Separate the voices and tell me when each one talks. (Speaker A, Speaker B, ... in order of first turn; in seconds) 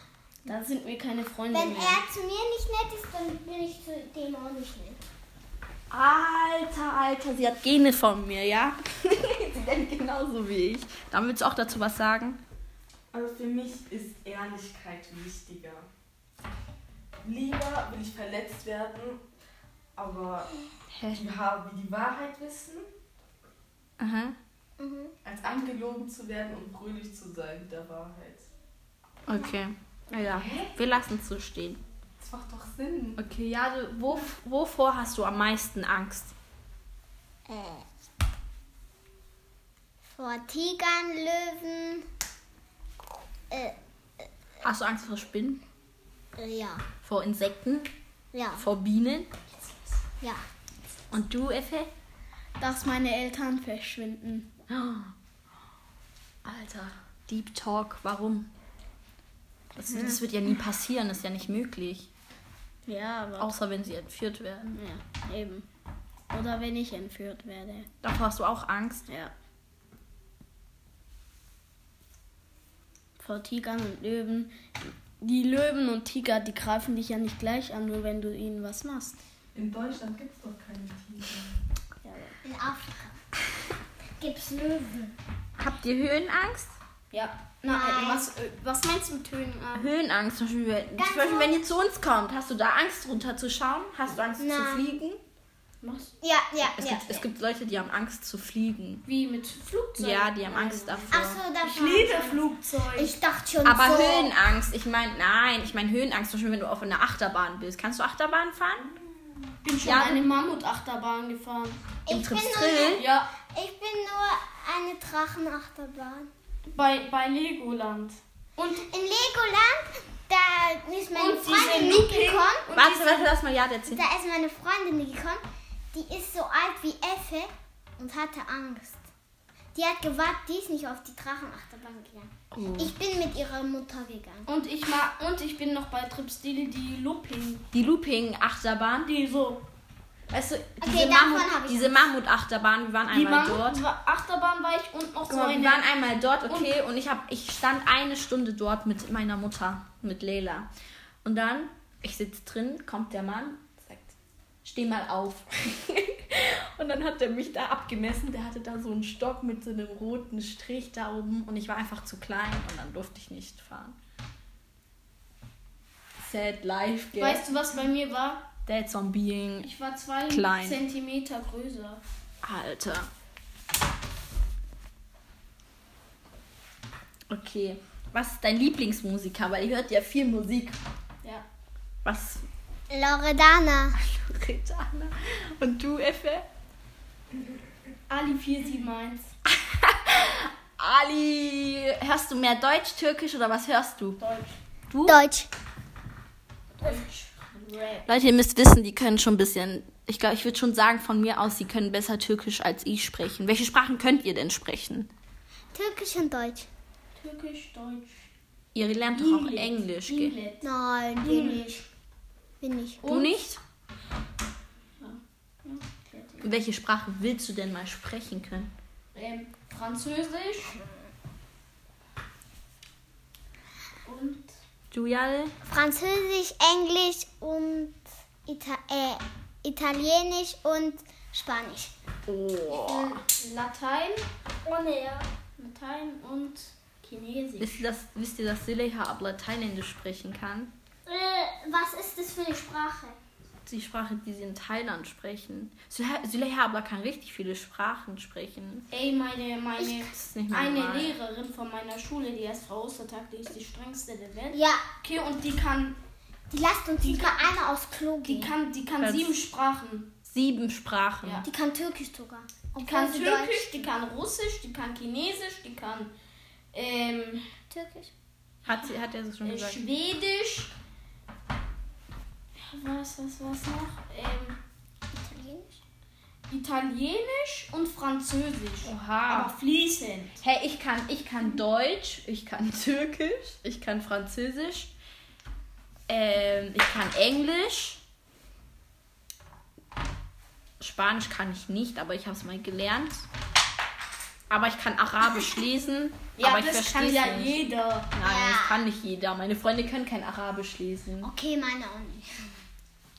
Speaker A: 0.5-2.0, 49.6-50.0, 52.6-54.5, 59.9-60.2, 62.9-63.5, 64.7-65.7, 66.3-67.9, 73.2-79.2, 82.0-82.4, 87.1-89.9, 95.8-96.1, 99.0-103.2, 109.6-111.8, 112.9-113.3, 116.7-118.8, 121.1-123.3, 134.4-137.7, 139.0-139.6, 143.1-145.8, 146.5-146.7, 167.2-168.4, 169.6-172.0, 188.1-189.3, 194.2-194.6, 196.8-198.1, 207.2-208.3, 209.1-210.6, 211.2-211.8, 213.0-213.4, 215.0-216.5, 219.1-220.8, 224.1-224.5, 232.7-234.2, 235.6-237.8, 248.9-256.0, 257.0-257.5, 258.2-260.1, 262.8-266.1, 266.7-267.5, 269.4-270.7, 272.5-274.6, 276.5-280.4, 296.4-298.1
Speaker B: 1.5-5.0, 24.8-25.1, 37.5-37.9, 40.1-42.0, 43.5-43.8, 46.4-46.9, 48.3-48.6, 82.4-83.2, 84.2-85.1, 87.7-88.2, 91.0-91.6, 94.4-94.9, 96.2-97.2, 101.1-102.4, 102.9-104.3, 112.0-116.3, 118.8-122.7, 123.9-129.0, 129.7-134.5, 140.8-142.1, 182.9-184.0, 195.0-195.5, 205.7-206.7, 210.6-211.8, 212.6-213.0, 225.7-231.9, 234.6-235.2, 241.1-243.2, 254.5-254.8, 256.5-258.5, 261.4-263.8, 267.7-268.1, 275.1-275.8, 298.2-298.8, 301.2-302.5
Speaker C: 5.9-12.4, 20.9-21.2, 24.0-24.4, 29.2-31.8, 33.2-36.3, 44.6-45.6, 47.0-47.9, 48.6-49.3, 51.1-51.9, 54.7-55.1, 56.4-58.5, 59.8-62.1, 63.4-64.8, 68.0-69.0, 85.6-86.7, 89.7-95.2, 96.8-99.0, 100.0-101.4, 103.6-108.9, 109.8-110.2, 112.1-113.0, 122.7-124.0, 132.5-132.9, 137.7-139.1, 140.3-143.8, 145.3-150.7, 151.2-164.0, 166.2-167.4, 168.7-169.7, 170.3-170.8, 172.4-173.1, 177.3-180.8, 182.0-182.4, 183.9-186.4, 189.4-194.2, 194.9-195.2, 198.1-205.1, 208.7-210.3, 213.0-213.6, 216.4-218.7, 224.9-225.5, 232.2-233.2, 237.6-240.7, 243.7-248.9, 250.1-251.1, 259.0-259.4, 260.2-261.4, 268.6-269.8, 278.8-279.6, 280.4-284.9, 286.1-288.0, 290.8-293.2, 294.5-297.6, 298.1-301.3
Speaker D: 13.1-15.9, 17.2-19.2, 19.9-20.5, 21.1-22.9, 25.2-28.5, 30.2-30.7, 32.2-33.2, 79.5-81.6